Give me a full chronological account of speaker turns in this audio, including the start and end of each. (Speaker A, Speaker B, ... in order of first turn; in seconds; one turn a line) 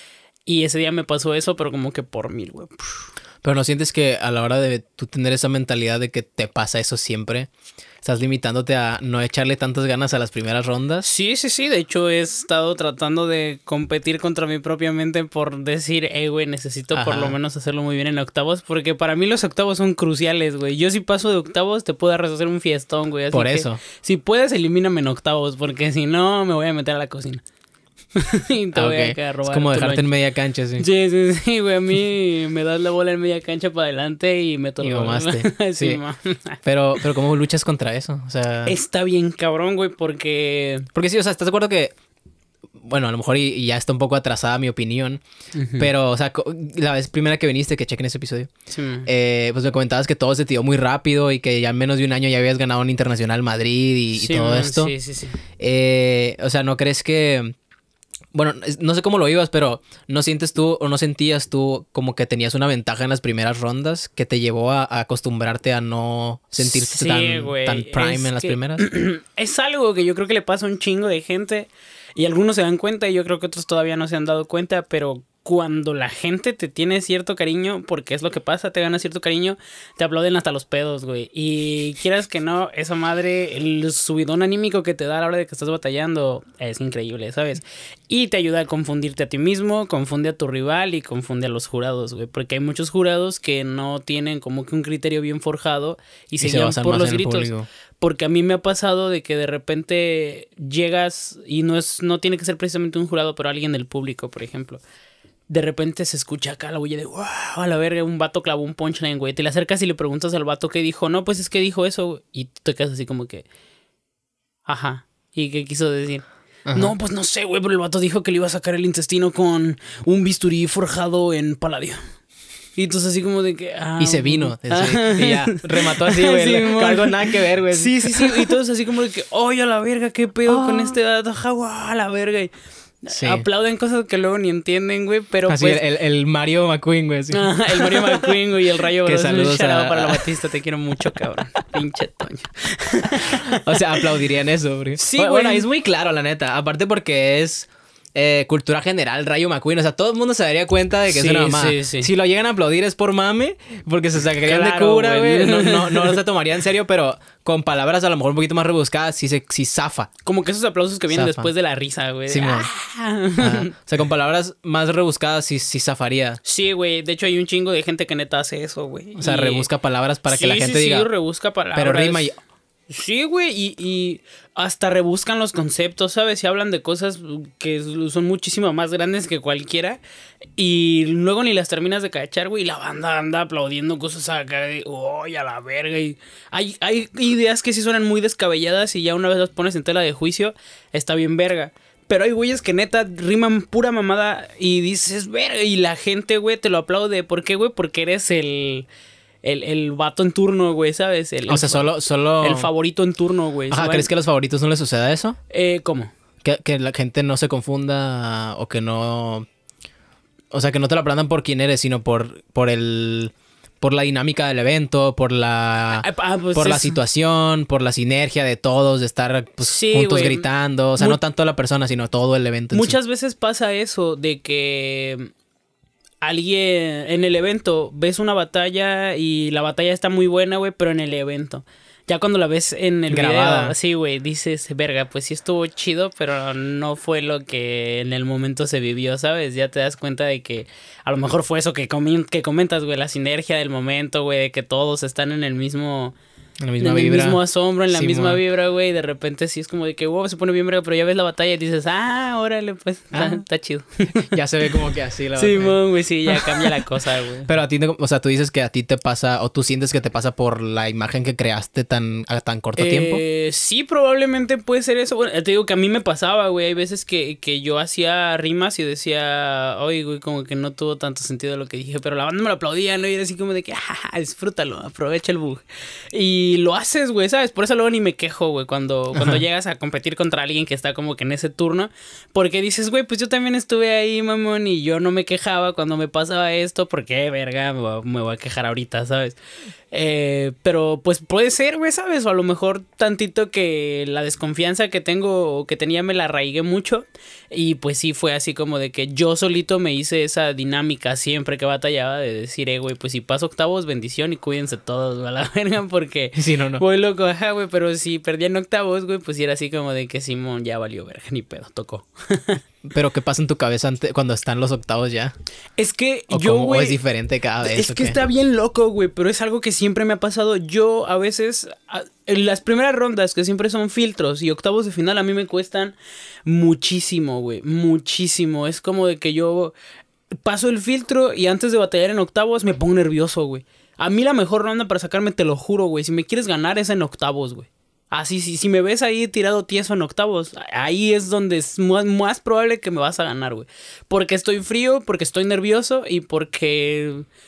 Speaker A: 0.5-3.1
Speaker B: 3.4-7.5
Speaker B: 8.0-11.1
Speaker A: 11.0-27.4
Speaker B: 16.9-17.4
Speaker B: 23.3-23.8
Speaker A: 28.2-30.1
Speaker B: 28.7-30.9
Speaker A: 30.8-37.0
Speaker B: 34.8-36.0
Speaker B: 36.6-38.8
Speaker A: 38.7-40.9
Speaker B: 41.0-41.9
Speaker B: 42.8-45.2
Speaker A: 45.5-45.9
Speaker B: 45.8-48.5
Speaker A: 48.7-49.1
Speaker B: 49.0-54.9
Speaker A: 54.1-55.4
Speaker B: 55.6-57.5
Speaker B: 58.3-68.9
Speaker A: 66.6-104.8
Speaker B: 96.4-97.7
Speaker A: 105.5-113.5
Speaker A: 114.7-122.0
Speaker B: 116.7-117.0
Speaker A: 122.8-132.5
Speaker B: 124.0-128.6
Speaker B: 130.5-131.0
Speaker A: 133.0-135.8
Speaker B: 133.1-133.5
Speaker B: 135.5-138.4
Speaker A: 137.3-144.1
Speaker B: 139.0-140.3
Speaker B: 143.3-160.1
Speaker A: 145.0-145.7
Speaker A: 151.1-152.1
Speaker A: 154.4-156.2
Speaker A: 160.2-163.7
Speaker B: 161.1-161.5
Speaker B: 162.3-162.7
Speaker B: 163.4-166.4
Speaker A: 166.4-169.7
Speaker B: 169.2-171.1
Speaker A: 170.3-172.3
Speaker B: 171.7-172.4
Speaker A: 172.9-180.0
Speaker A: 180.6-198.9
Speaker A: 199.4-204.1
Speaker B: 201.5-202.7
Speaker B: 203.7-205.4
Speaker A: 205.5-206.1
Speaker B: 206.4-209.5
Speaker B: 210.5-223.0
Speaker A: 215.9-217.0
Speaker A: 219.6-221.2
Speaker A: 222.7-225.3
Speaker A: 226.2-246.2
Speaker B: 233.1-233.8
Speaker B: 246.6-248.4
Speaker A: 246.8-254.3
Speaker B: 253.1-253.4
Speaker B: 254.1-256.9
Speaker A: 255.4-257.5
Speaker B: 257.5-263.2
Speaker A: 262.8-289.4
Speaker B: 279.1-279.4
Speaker A: 289.9-312.6
Speaker B: 306.4-306.8
Speaker B: 312.9-315.3
Speaker A: 315.8-317.0
Speaker B: 316.3-318.2
Speaker A: 317.6-325.9
Speaker A: 326.5-329.8
Speaker A: 330.4-347.3